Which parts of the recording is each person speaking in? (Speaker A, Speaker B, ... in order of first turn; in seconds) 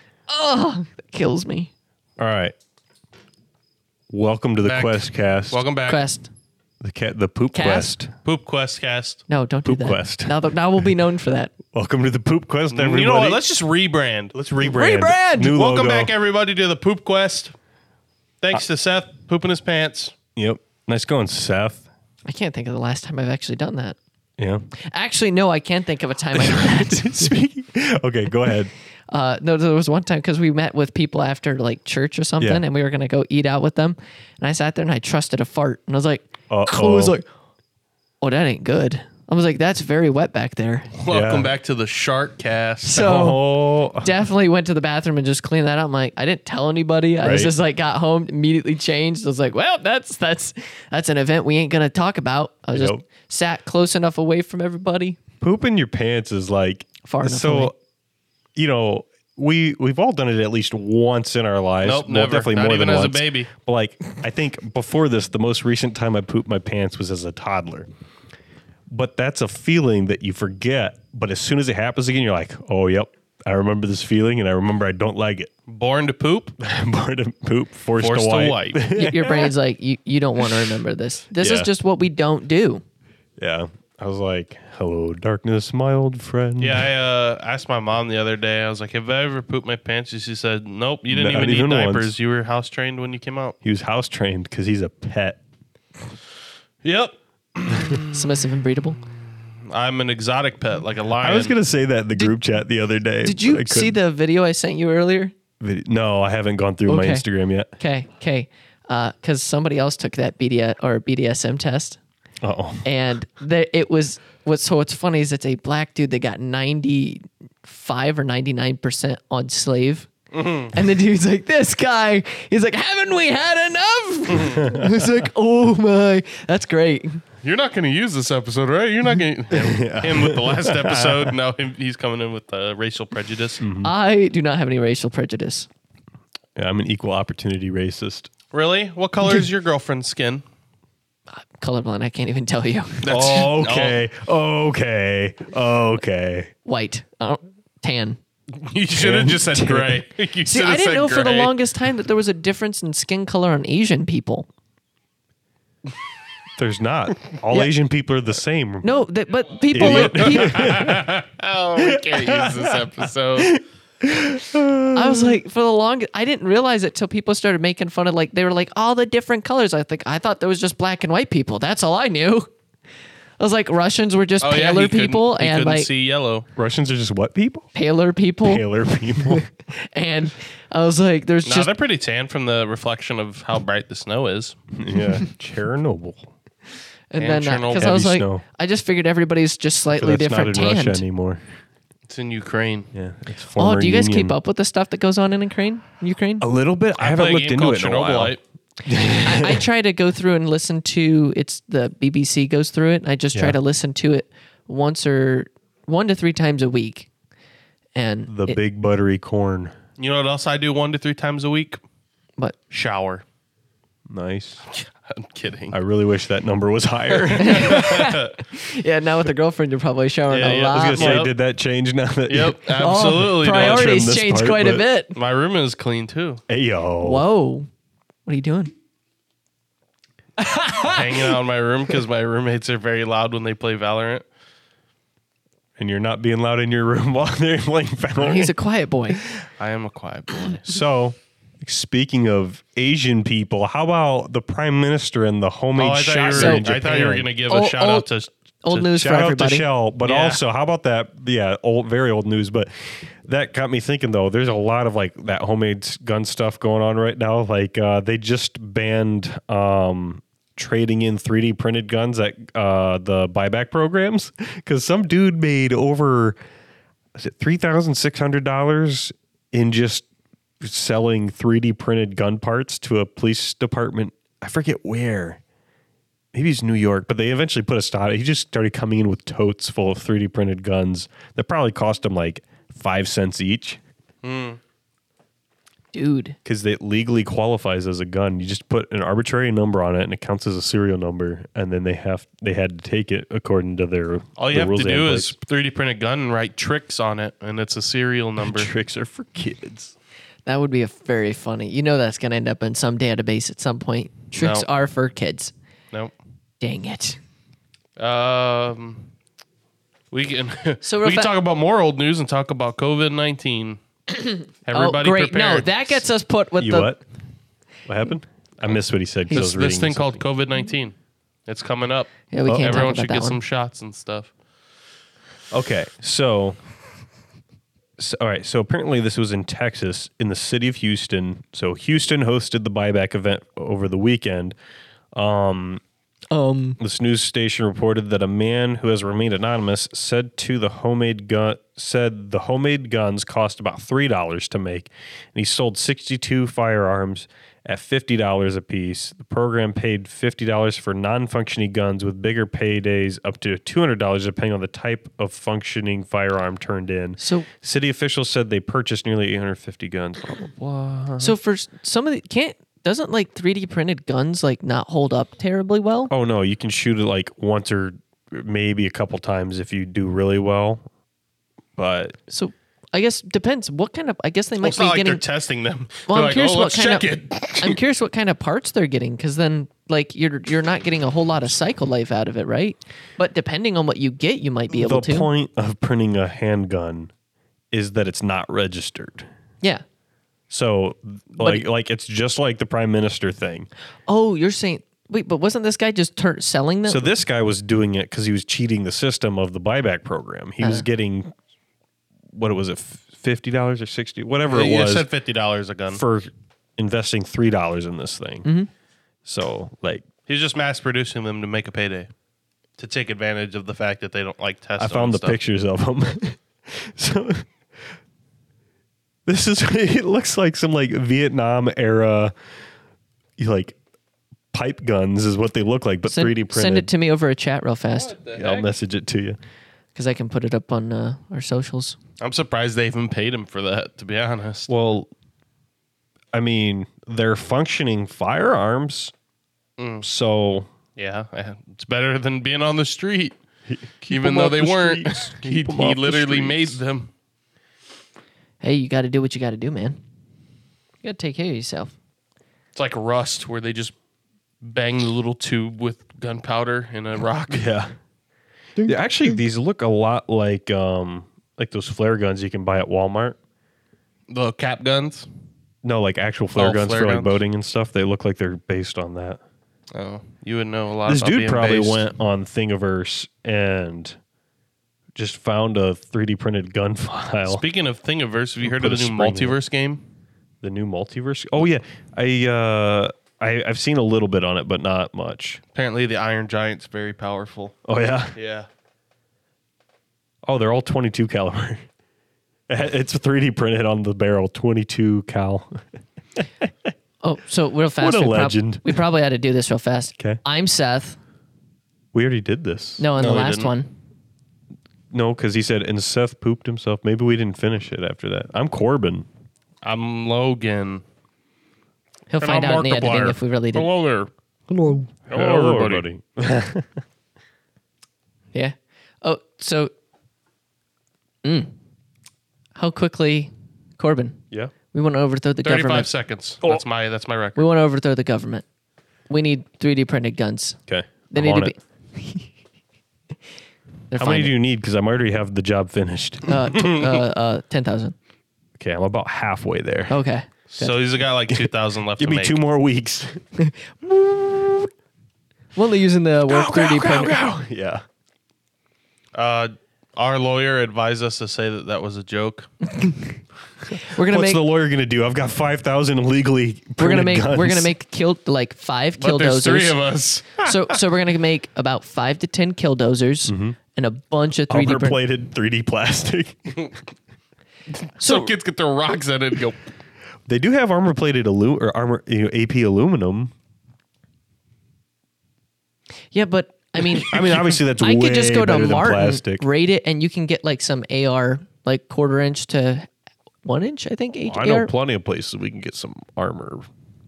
Speaker A: 0.3-1.7, 5.9-6.3, 7.5-7.9, 9.3-11.5, 14.6-15.6, 22.3-24.0, 24.9-27.3, 29.1-37.2, 38.2-40.9, 42.8-43.4, 44.0-55.2, 57.0-57.7, 78.9-82.8, 98.1-99.0, 103.2-105.3, 106.9-107.2, 107.8-112.0, 112.8-120.1, 120.7-127.2, 133.8-135.7, 141.4-143.1, 146.7-148.2, 150.4-154.5, 158.8-160.8, 164.9-172.5, 173.4-175.9, 177.8-178.7, 179.2-181.7, 187.1-191.0, 193.6-196.4, 199.1-207.1, 208.0-208.6, 217.4-221.2, 222.8-225.2, 227.0-227.7, 228.3-228.7, 230.4-231.4, 238.2-239.2, 246.3-246.7, 247.5-248.1, 248.6-249.7, 285.9-286.4, 300.5-305.5, 306.6-307.2, 310.8-311.3, 314.7-317.0, 322.3-323.4, 336.3-336.8, 357.2-357.5, 361.2-366.1, 372.3-375.2, 376.1-385.3, 391.4-391.6, 394.1-397.1, 400.6-400.9, 426.1-428.1, 429.9-432.0, 448.6-450.0, 451.0-451.9, 458.8-459.4, 497.2-501.2, 503.0-503.9, 512.3-513.9, 518.5-519.9, 521.4-521.7, 522.8-526.1, 527.6-528.6, 529.3-530.8, 531.3-532.5, 534.1-534.5, 536.5-538.2, 540.1-541.0, 543.6-544.9, 545.8-547.4, 552.9-553.4, 553.9-554.6, 557.0-560.0, 560.6-565.2, 568.2-568.5, 576.3-583.1, 583.6-584.9
Speaker B: 2.2-2.5, 4.1-5.6, 6.8-8.1, 9.7-10.9, 11.7-13.4, 14.3-16.1, 20.4-21.9, 24.4-24.6, 26.4-28.7, 36.5-37.2, 41.1-41.5, 43.0-44.1, 47.2-47.5, 52.7-53.0, 55.4-57.7, 58.6-67.9, 68.9-75.5, 76.6-79.5, 81.4-81.7, 83.4-86.9, 91.1-92.1, 93.6-95.4, 97.7-98.0, 101.2-104.0, 105.6-107.7, 112.4-112.9, 124.6-125.3, 129.5-131.4, 133.6-133.9, 136.6-138.3, 143.1-146.5, 148.9-150.0, 156.6-158.9, 159.7-161.2, 161.8-165.4, 176.6-177.7, 178.5-179.4, 184.7-186.3, 187.7-188.4, 190.0-191.4, 192.9-194.3, 196.4-199.6, 203.3-203.6, 208.3-209.8, 214.1-214.6, 215.7-218.0, 220.4-224.8, 226.5-227.3, 235.8-238.5, 240.4-247.3, 248.7-266.4, 267.2-270.1, 270.6-275.4, 276.3-283.8, 286.4-295.3, 298.4-299.9, 316.6-317.0, 317.9-320.2, 322.5-322.9, 325.5-326.6, 328.0-334.6, 335.1-335.8, 336.8-361.4, 366.1-370.9, 371.8-372.2, 384.7-387.1, 387.7-389.3, 390.5-393.7, 396.9-401.3, 402.3-405.1, 405.9-408.5, 409.2-410.1, 414.8-417.5, 419.3-422.3, 423.4-423.8, 424.5-426.9, 428.3-429.4, 434.7-435.1, 436.3-439.1, 440.0-440.7, 443.7-446.8, 457.5-457.9, 458.9-463.4, 465.8-469.4, 471.1-474.2, 475.1-477.6, 478.6-479.6, 480.6-485.6, 487.9-488.4, 490.4-491.9, 492.7-495.8, 498.0-499.0, 502.1-503.1, 505.1-509.3, 514.7-516.9, 530.9-531.7, 534.1-536.8, 538.8-540.2, 541.5-543.4, 546.5-548.0, 553.9-557.9, 563.5-563.8, 564.7-566.8, 570.5-573.5, 577.1-579.6, 584.5-586.9
Speaker C: 4.7-6.0, 8.2-9.2, 12.7-14.3, 15.4-17.5, 18.4-20.1, 41.0-43.0, 61.8-63.5, 75.7-76.5, 78.0-78.8, 86.6-93.6, 96.8-98.2, 99.6-101.5, 120.3-120.7, 124.3-124.6, 127.4-133.6, 138.5-140.4, 143.0-144.0, 148.6-151.5, 159.7-163.6, 174.4-176.5, 181.4-184.6, 187.2-187.9, 192.1-192.9, 197.0-198.4, 210.0-211.8, 212.7-213.2, 214.7-215.8, 217.1-218.3, 220.3-221.3, 222.3-224.1, 225.1-226.4, 230.8-234.2, 239.6-240.8, 245.8-248.3, 250.0-250.4, 284.2-284.6, 294.4-298.7, 304.4-304.7, 308.0-309.1, 310.1-313.8, 314.6-315.8, 319.3-320.9, 321.5-324.3, 374.6-377.8, 404.5-406.0, 410.3-412.1, 412.8-415.4, 428.0-428.7, 432.2-434.7, 439.8-440.1, 441.0-443.4, 444.1-447.1, 452.8-453.9, 454.6-457.6, 464.3-465.3, 466.6-467.4, 469.9-472.1, 477.5-480.0, 485.8-487.8, 488.4-488.7, 503.2-503.7, 509.8-511.0, 512.4-514.3, 515.3-516.1, 525.6-527.6, 540.7-542.6, 549.4-552.7, 559.2-560.6, 568.2-569.8